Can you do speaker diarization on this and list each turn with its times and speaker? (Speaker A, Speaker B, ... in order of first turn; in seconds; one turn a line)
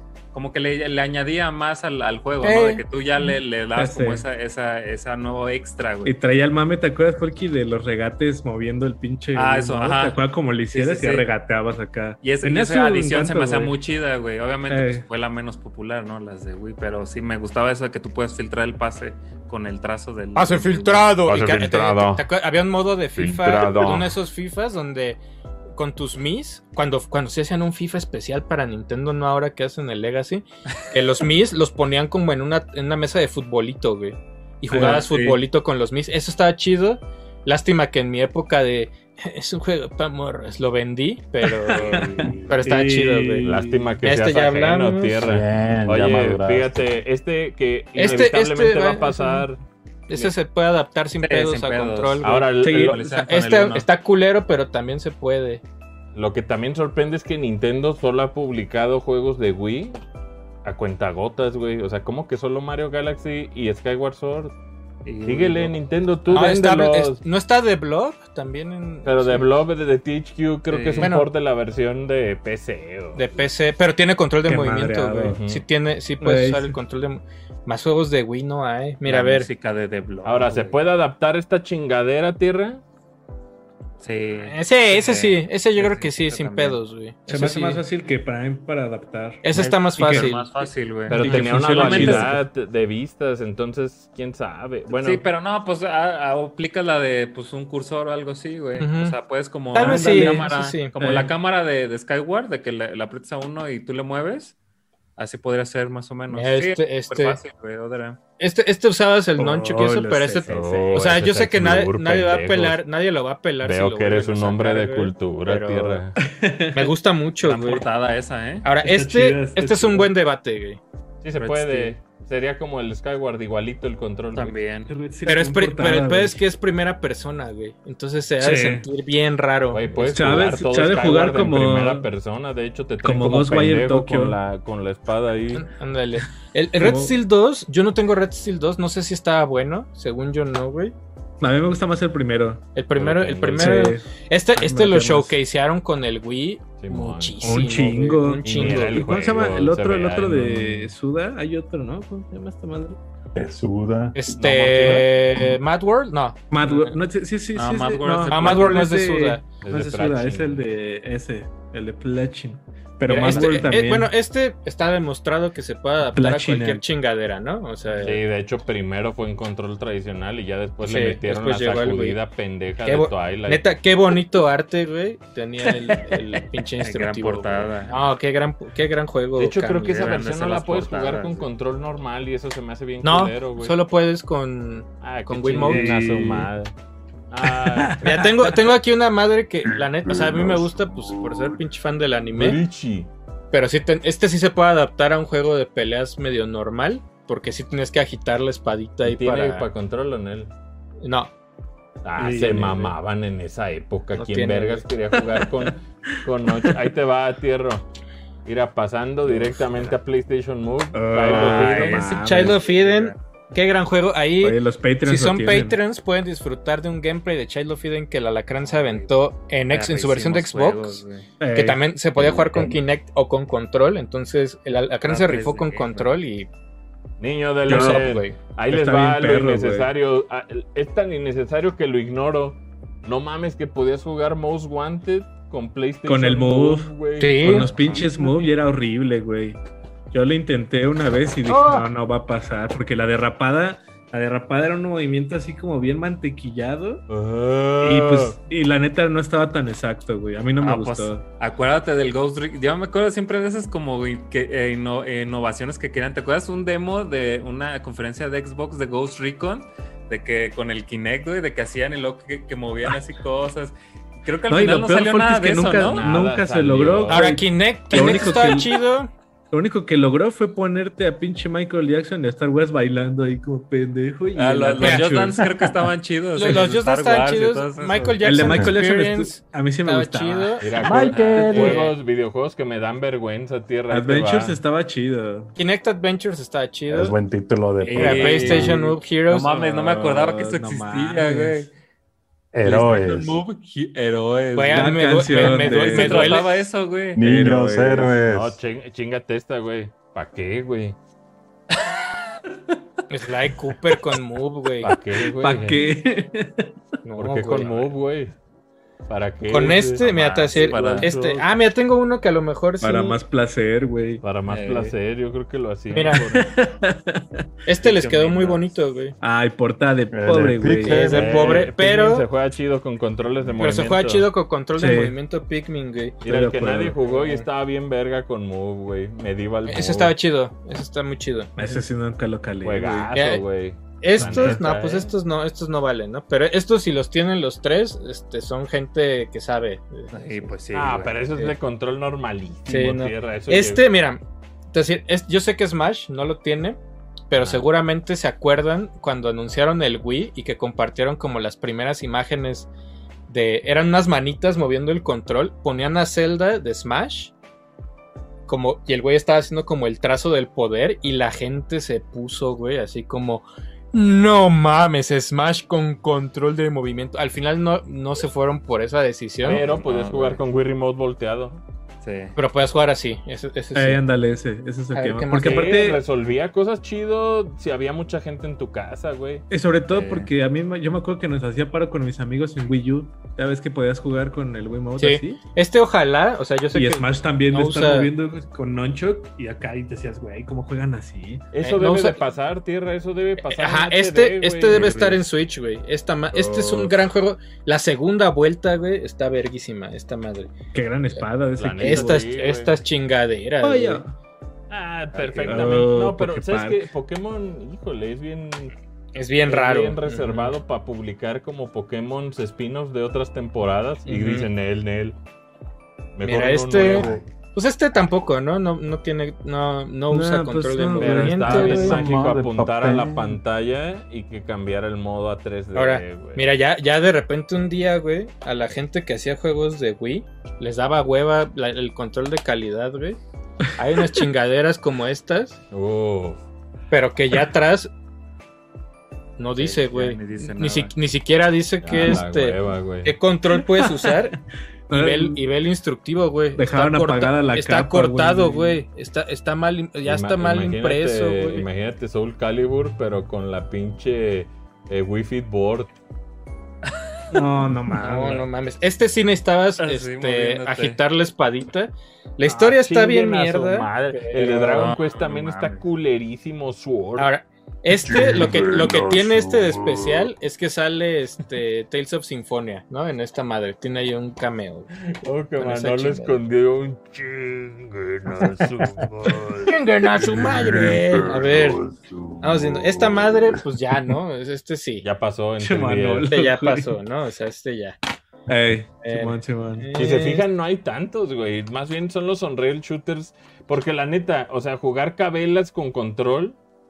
Speaker A: 0.3-6.1
Speaker B: 2.4-2.8
Speaker C: 3.3-4.2
Speaker C: 6.0-13.7
Speaker A: 9.3-10.2
Speaker A: 10.7-11.3
Speaker A: 12.2-21.2
Speaker C: 14.7-15.0
Speaker B: 20.4-25.2
Speaker D: 21.2-22.2
Speaker D: 23.1-24.1
Speaker B: 25.7-45.3
Speaker C: 34.7-35.4
Speaker C: 41.4-43.9
Speaker A: 41.8-42.4
Speaker E: 42.2-42.5
Speaker D: 43.4-49.6
Speaker E: 45.2-47.0
Speaker B: 47.9-49.5
Speaker B: 50.1-55.6
Speaker A: 51.2-53.9
Speaker D: 52.2-53.0
Speaker D: 56.1-60.0
Speaker D: 60.6-64.5
Speaker A: 65.0-65.8
Speaker D: 65.2-67.2
Speaker B: 66.3-69.5
Speaker D: 69.0-73.4
Speaker A: 70.7-71.1
Speaker B: 71.0-71.3
Speaker B: 73.1-79.5
Speaker C: 74.5-75.4
Speaker D: 75.2-75.6
Speaker C: 76.2-76.8
Speaker A: 79.0-80.8
Speaker D: 80.2-82.8
Speaker A: 84.0-86.8
Speaker B: 84.4-87.8
Speaker C: 87.3-90.3
Speaker B: 89.4-90.5
Speaker A: 89.5-92.4
Speaker D: 91.1-95.2
Speaker C: 91.1-92.4
Speaker A: 94.9-104.5
Speaker B: 98.8-99.2
Speaker B: 99.7-100.9
Speaker C: 99.8-101.3
Speaker A: 105.2-108.2
Speaker B: 106.3-107.4
Speaker B: 108.4-116.0
Speaker C: 109.4-111.1
Speaker D: 110.5-112.8
Speaker D: 113.6-116.2
Speaker C: 116.3-116.9
Speaker B: 116.7-117.8
Speaker A: 117.4-118.7
Speaker B: 118.6-120.8
Speaker C: 118.8-120.1
Speaker D: 121.2-124.5
Speaker A: 121.3-121.9
Speaker A: 124.3-124.9
Speaker C: 124.9-126.4
Speaker B: 125.2-130.4
Speaker C: 128.4-128.8
Speaker D: 129.7-135.7
Speaker C: 130.0-132.1
Speaker C: 133.0-134.4
Speaker B: 135.5-140.9
Speaker C: 136.8-137.2
Speaker C: 141.4-142.6
Speaker B: 142.7-149.0
Speaker D: 142.9-143.9
Speaker C: 143.6-145.4
Speaker D: 146.8-147.7
Speaker C: 147.4-153.0
Speaker D: 148.4-150.9
Speaker E: 153.3-154.2
Speaker B: 154.1-156.9
Speaker D: 154.4-155.1
Speaker C: 156.5-164.1
Speaker A: 157.5-158.9
Speaker B: 158.3-159.4
Speaker D: 159.6-160.6
Speaker B: 163.1-168.2
Speaker C: 166.1-166.8
Speaker A: 167.8-168.1
Speaker D: 168.0-173.6
Speaker B: 170.8-172.2
Speaker B: 172.8-180.1
Speaker C: 175.8-176.2
Speaker A: 176.8-178.0
Speaker D: 179.3-183.7
Speaker A: 179.9-181.5
Speaker B: 183.0-185.9
Speaker D: 185.0-186.7
Speaker C: 185.6-186.5
Speaker D: 187.3-188.2
Speaker C: 187.4-188.4
Speaker B: 188.0-192.6
Speaker E: 189.7-191.6
Speaker D: 192.3-193.1
Speaker B: 193.5-199.7
Speaker D: 199.0-200.5
Speaker B: 201.0-201.3
Speaker D: 202.0-207.9
Speaker C: 202.2-202.9
Speaker B: 204.2-204.8
Speaker C: 205.1-205.7
Speaker C: 206.5-206.8
Speaker D: 208.4-212.0
Speaker C: 210.9-212.6
Speaker A: 211.2-213.2
Speaker B: 211.9-226.5
Speaker C: 214.4-215.8
Speaker A: 218.6-219.1
Speaker A: 219.7-221.3
Speaker C: 221.4-221.8
Speaker E: 222.2-222.8
Speaker A: 225.0-226.1
Speaker D: 227.2-238.1
Speaker C: 227.7-228.1
Speaker B: 227.7-228.4
Speaker C: 228.7-229.9
Speaker C: 236.1-239.6
Speaker B: 237.2-237.7
Speaker A: 237.8-238.5
Speaker C: 240.1-247.0
Speaker D: 241.4-241.9
Speaker D: 247.1-248.4
Speaker C: 247.8-251.2
Speaker A: 250.6-266.1
Speaker C: 264.5-268.8
Speaker D: 265.8-267.3
Speaker B: 267.1-269.1
Speaker C: 269.5-275.7
Speaker A: 274.3-278.5
Speaker B: 274.8-275.1
Speaker B: 276.3-281.1
Speaker C: 278.2-281.9
Speaker E: 278.5-278.7
Speaker D: 280.6-284.6
Speaker E: 280.8-281.8
Speaker A: 281.0-281.9
Speaker C: 283.9-285.5
Speaker B: 285.6-287.2
Speaker E: 286.9-288.8
Speaker A: 287.8-291.7
Speaker B: 287.9-289.5
Speaker C: 288.5-291.7
Speaker E: 292.5-293.4
Speaker A: 292.6-297.2
Speaker B: 294.5-296.5
Speaker C: 294.7-296.5
Speaker E: 297.1-298.6
Speaker C: 297.2-298.2
Speaker D: 298.3-301.0
Speaker B: 303.1-304.9
Speaker D: 304.8-305.8
Speaker C: 305.3-306.7
Speaker B: 307.0-307.9
Speaker D: 307.2-308.4
Speaker D: 309.1-311.4
Speaker B: 309.5-313.2
Speaker A: 310.0-311.1
Speaker C: 312.8-314.2
Speaker D: 314.2-316.5
Speaker A: 314.5-314.9
Speaker B: 315.9-316.3
Speaker C: 316.1-317.5
Speaker B: 317.6-319.1
Speaker A: 317.8-318.6
Speaker C: 319.2-321.1
Speaker E: 320.1-321.5
Speaker B: 320.8-322.2
Speaker D: 321.0-324.3
Speaker B: 323.6-326.3
Speaker C: 324.8-325.1
Speaker D: 326.2-330.1
Speaker C: 326.2-326.9
Speaker B: 327.0-327.5
Speaker B: 329.7-331.8
Speaker C: 331.6-333.1
Speaker D: 332.6-335.1
Speaker B: 333.1-333.4
Speaker B: 334.0-340.5
Speaker C: 334.1-334.6
Speaker A: 340.1-341.2
Speaker D: 340.7-343.8
Speaker B: 342.7-344.2
Speaker B: 344.7-346.8
Speaker B: 347.3-352.7
Speaker B: 353.3-357.3
Speaker B: 358.5-369.6
Speaker A: 369.4-370.4
Speaker D: 369.4-371.6
Speaker A: 372.0-372.3
Speaker B: 372.4-374.0
Speaker C: 373.7-376.0
Speaker B: 374.9-375.8
Speaker D: 375.4-379.5
Speaker C: 379.5-385.4
Speaker A: 379.9-380.3
Speaker B: 385.0-388.1
Speaker C: 386.7-391.5
Speaker D: 391.5-395.2
Speaker B: 391.6-392.2
Speaker B: 393.4-400.5
Speaker A: 394.7-395.2
Speaker D: 396.4-396.8
Speaker C: 400.7-402.2
Speaker D: 401.6-402.8
Speaker B: 401.8-404.0
Speaker C: 403.6-404.1
Speaker D: 404.7-408.7
Speaker A: 405.2-405.8
Speaker C: 405.4-406.8
Speaker B: 409.1-410.5
Speaker D: 409.4-415.2
Speaker B: 414.1-414.5
Speaker D: 416.1-417.2
Speaker B: 416.2-422.0
Speaker E: 416.9-417.2
Speaker C: 420.1-422.0
Speaker D: 421.0-426.4
Speaker E: 421.6-423.4
Speaker B: 425.7-433.2
Speaker B: 433.7-435.6
Speaker D: 435.7-436.4
Speaker B: 436.9-437.9
Speaker B: 439.4-444.4
Speaker A: 439.5-440.9
Speaker D: 441.8-443.1
Speaker C: 443.6-444.3
Speaker C: 444.9-445.4
Speaker B: 444.9-451.7
Speaker C: 446.6-448.8
Speaker D: 450.0-455.9
Speaker A: 456.9-457.2
Speaker C: 457.3-458.4
Speaker B: 457.9-464.9
Speaker A: 458.2-458.4
Speaker A: 459.8-461.0
Speaker D: 462.4-467.3
Speaker A: 464.7-465.8
Speaker B: 467.2-474.9
Speaker E: 467.9-470.3
Speaker D: 475.0-479.7
Speaker B: 475.6-476.4
Speaker E: 478.4-479.6
Speaker B: 479.6-481.8
Speaker E: 480.1-483.6
Speaker B: 482.4-485.1
Speaker D: 485.0-486.3
Speaker C: 485.6-487.0
Speaker B: 486.3-488.0
Speaker C: 488.5-489.9
Speaker B: 489.0-490.4
Speaker D: 489.9-496.6